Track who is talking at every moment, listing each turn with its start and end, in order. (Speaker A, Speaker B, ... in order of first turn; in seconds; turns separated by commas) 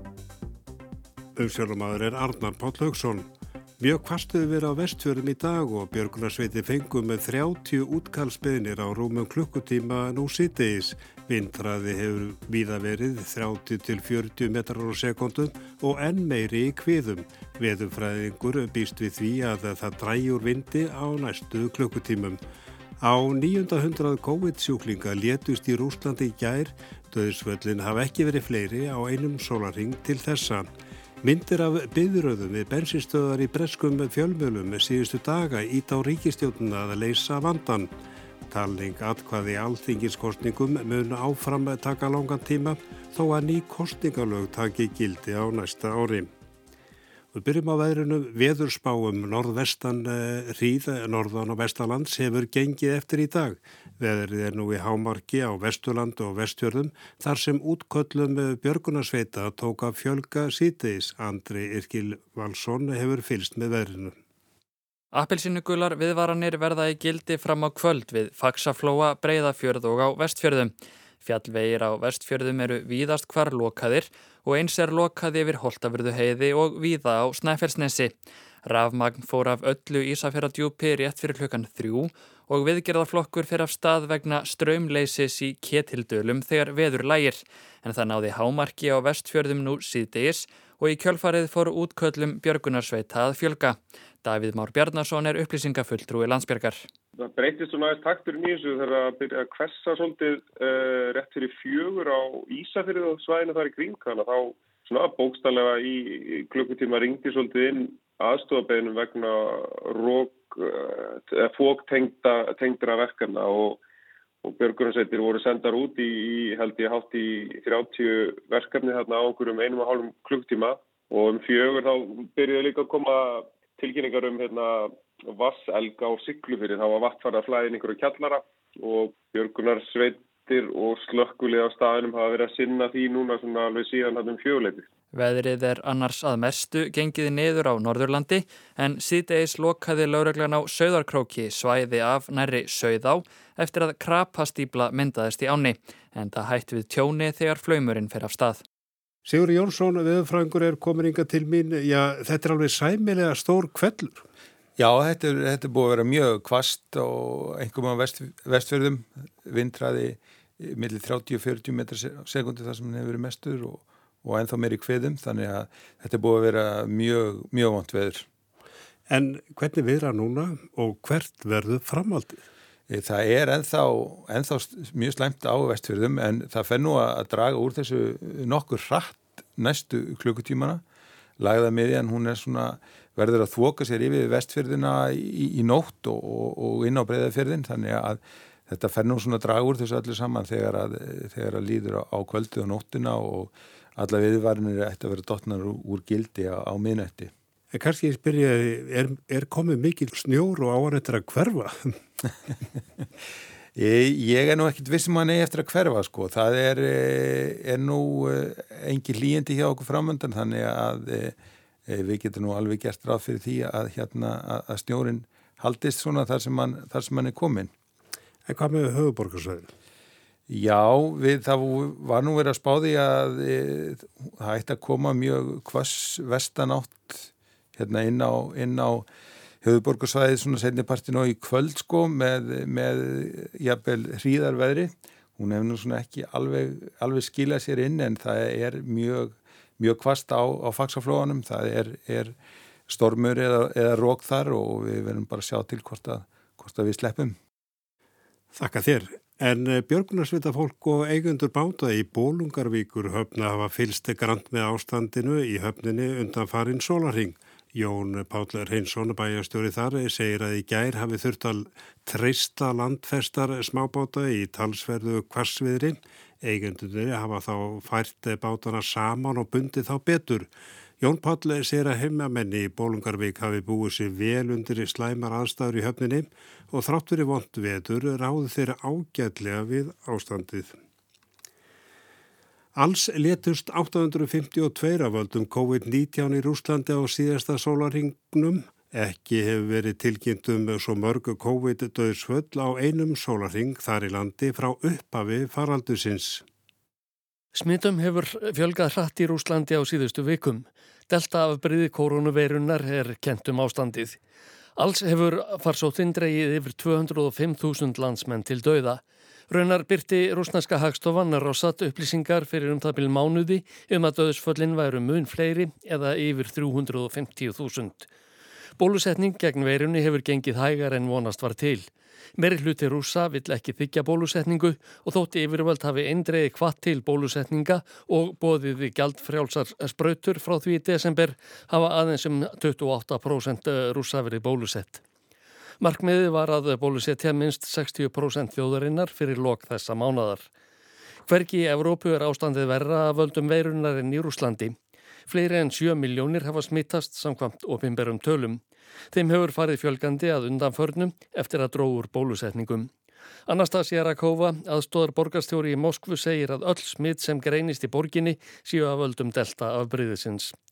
Speaker A: 1.4-3.3, Speaker A: 3.8-22.4, Speaker A: 23.0-30.7, Speaker A: 31.2-37.9, Speaker A: 38.5-46.3, Speaker A: 47.3-64.2, Speaker B: 65.1-96.8, Speaker C: 97.2-113.8, Speaker C: 114.4-134.9, Speaker B: 135.1-148.6, Speaker A: 149.2-154.2, Speaker D: 154.8-168.2, Speaker A: 169.1-172.4, Speaker D: 172.9-180.8, Speaker D: 181.4-197.3, Speaker A: 197.7-202.0, Speaker D: 203.8-217.7, Speaker A: 218.4-219.7, Speaker D: 220.5-229.1, Speaker D: 229.6-242.3, Speaker D: 242.9-247.3, Speaker A: 248.5-280.8, Speaker A: 282.8-296.4, Speaker E: 297.5-304.2, Speaker E: 304.8-318.1, Speaker E: 318.8-335.0, Speaker E: 335.8-340.5, Speaker E: 341.2-344.8, Speaker E: 345.3-352.9, Speaker E: 353.5-360.5